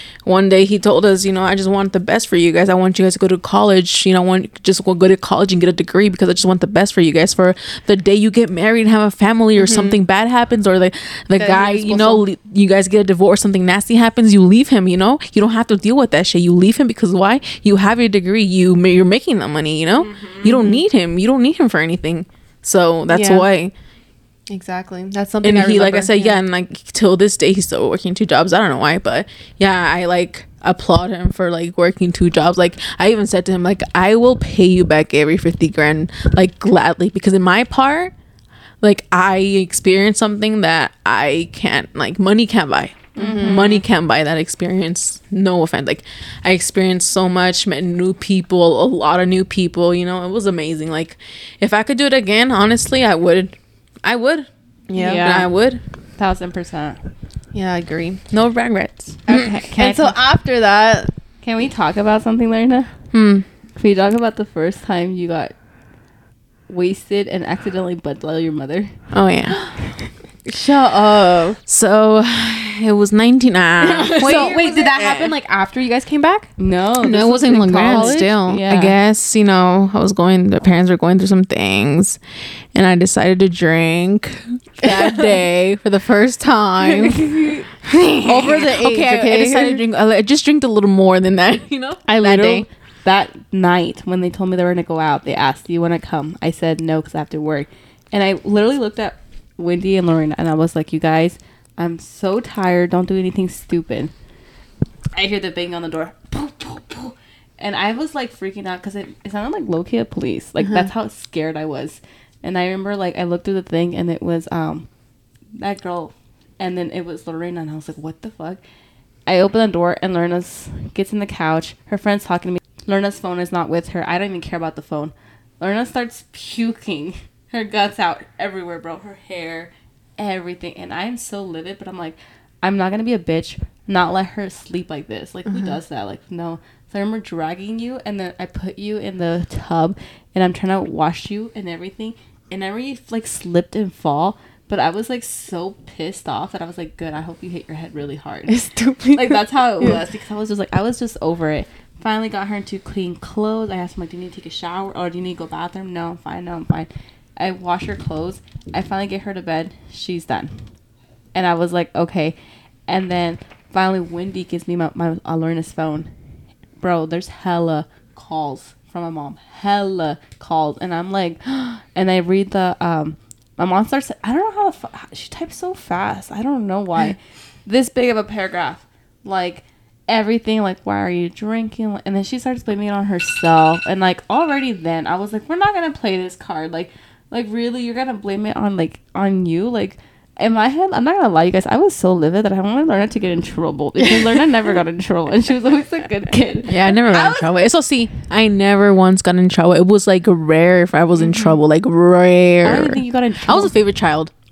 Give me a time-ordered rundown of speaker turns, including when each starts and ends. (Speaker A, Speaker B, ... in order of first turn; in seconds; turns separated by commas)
Speaker A: 0.2-23.7, Speaker B: 9.6-10.0, Speaker B: 11.4-12.2, Speaker B: 20.0-20.8, Speaker B: 23.1-23.4, Speaker B: 24.5-26.4, Speaker A: 25.4-38.1, Speaker A: 38.8-54.5, Speaker C: 43.1-43.8, Speaker B: 43.2-43.8, Speaker B: 54.9-55.4, Speaker C: 54.9-55.5, Speaker A: 55.0-55.8, Speaker C: 56.2-57.0, Speaker B: 57.5-58.2, Speaker A: 58.3-59.4, Speaker C: 59.3-60.2, Speaker B: 59.3-61.1, Speaker C: 61.4-62.9, Speaker A: 63.1-63.5, Speaker C: 63.8-65.5, Speaker C: 66.7-69.0, Speaker A: 69.1-70.0, Speaker B: 70.5-71.6, Speaker A: 71.7-75.3, Speaker C: 73.9-75.1, Speaker B: 74.1-76.5, Speaker C: 76.6-79.0, Speaker A: 77.0-82.2, Speaker B: 77.8-78.4, Speaker A: 82.7-92.7, Speaker B: 84.9-85.3, Speaker B: 86.8-89.8, Speaker C: 92.1-104.1, Speaker B: 92.1-92.6, Speaker C: 105.1-114.9, Speaker C: 115.6-118.6, Speaker C: 119.3-148.6, Speaker B: 135.5-135.8, Speaker B: 148.5-150.0, Speaker C: 149.1-160.7, Speaker C: 161.3-162.4, Speaker C: 162.9-166.1, Speaker C: 166.8-197.5, Speaker A: 196.7-204.3, Speaker C: 202.6-203.8